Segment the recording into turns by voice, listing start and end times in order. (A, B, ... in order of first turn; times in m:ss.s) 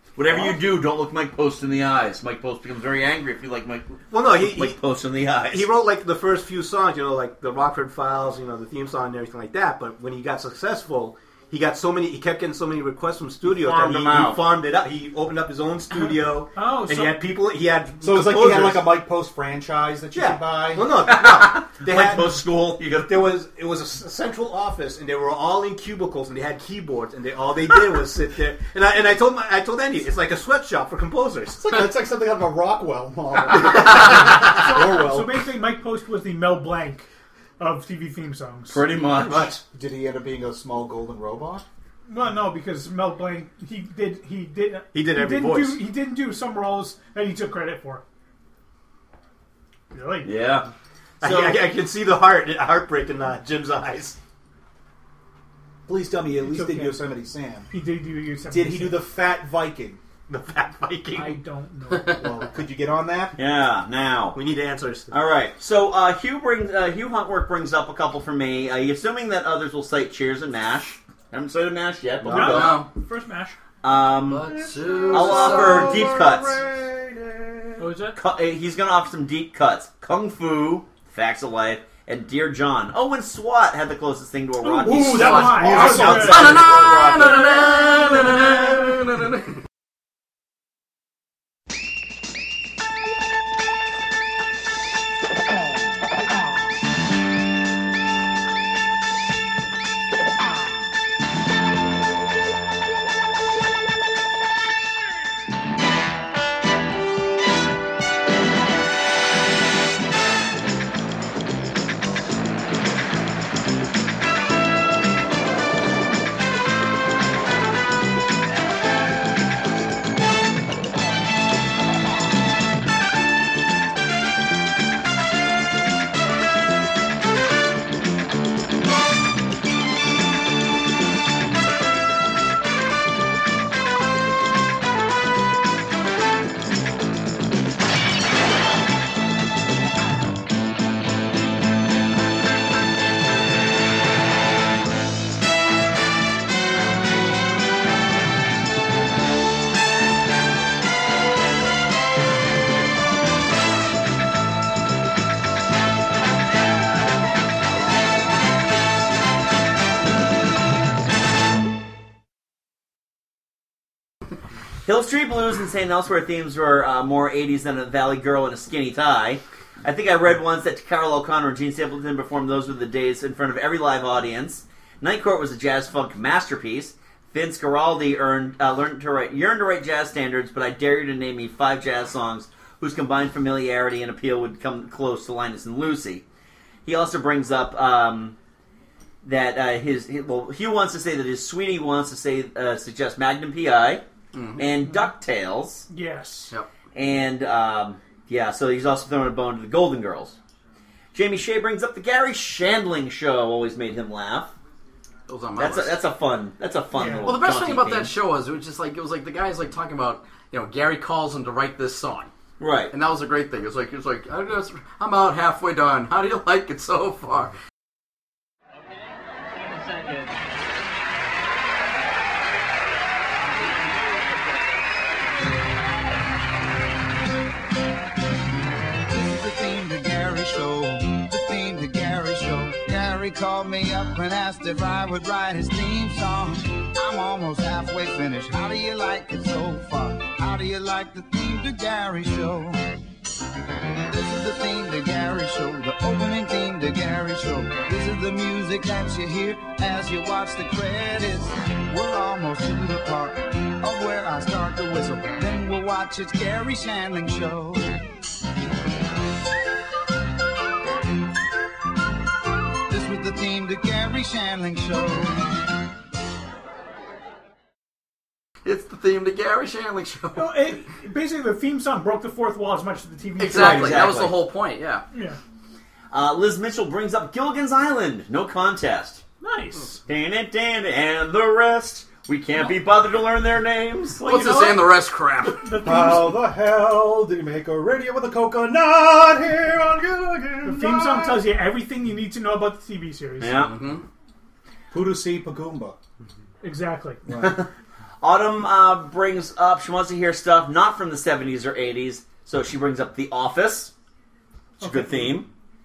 0:00.2-0:05.7 A
0:00.3-0:00.6 B
0:04.1-0:04.8 B
0:05.5-0:19.0 B
0:13.5-0:14.5 A
0:15.9-0:17.2 C
0:18.0-0:21.0 D
0:20.1-0:22.5 B
0:21.1-0:23.3 A
0:23.0-0:31.8 B
0:31.6-0:35.5 D
0:33.9-0:37.1 C
0:37.6-0:38.9 C
0:38.7-0:39.5 A
0:39.2-0:39.5 B
0:39.4-0:41.6 D
0:42.1-0:48.0 C
0:44.9-0:45.8 B
0:49.9-0:50.4 C
0:50.2-0:50.7 A
0:51.2-0:51.7 A
0:51.2-0:54.2 B
0:55.9-0:57.7 D
0:56.4-0:57.0 C
0:57.7-0:59.1 C
0:58.5-1:00.0 D
1:00.3-1:01.4 B
1:01.1-1:02.5 C
1:01.9-1:02.2 E
1:02.1-1:03.4 D
1:03.4-1:04.4 A
1:04.3-1:05.2 B
1:05.1-1:12.8 A
1:12.3-1:13.6 C
1:12.4-1:12.9 E
1:13.8-1:16.6 A
1:14.3-1:16.1 E
1:14.6-1:17.9 D
1:17.8-1:18.2 C
1:18.2-1:27.7 A
1:24.6-1:26.5 C
1:24.9-1:26.8 D
1:25.1-1:29.4 E
2:44.9-3:06.2 A
3:06.9-3:08.4 A
3:09.2-3:14.0 A
3:14.3-3:14.7 E
3:14.6-3:15.9 A
3:15.9-3:16.5 C
3:17.0-3:20.4 A
3:21.1-3:24.5 A
3:25.3-3:26.0 E
3:25.6-3:28.1 A
3:27.0-3:27.3 C
3:27.2-3:32.3 E
3:32.6-3:32.9 A
3:32.9-3:37.5 E
3:49.1-4:02.8 F
4:04.1-4:17.9 F
4:22.9-4:25.4 F
4:28.6-4:30.5 E
4:30.4-4:34.1 C
4:33.4-4:35.0 E
4:33.5-4:34.4 A
4:35.1-4:35.4 C
4:36.1-4:39.2 A
4:39.4-4:40.0 C
4:40.1-4:44.2 A
4:44.2-4:45.7 E
4:45.6-4:46.5 C
4:45.7-4:51.5 D
4:50.6-4:53.7 C
4:53.4-4:53.7 A
4:53.5-4:54.0 E
4:54.9-4:56.0 D
4:56.6-4:57.2 C
4:57.3-4:57.6 D
4:58.2-5:03.9 A
5:04.8-5:05.4 C
5:04.8-5:05.5 A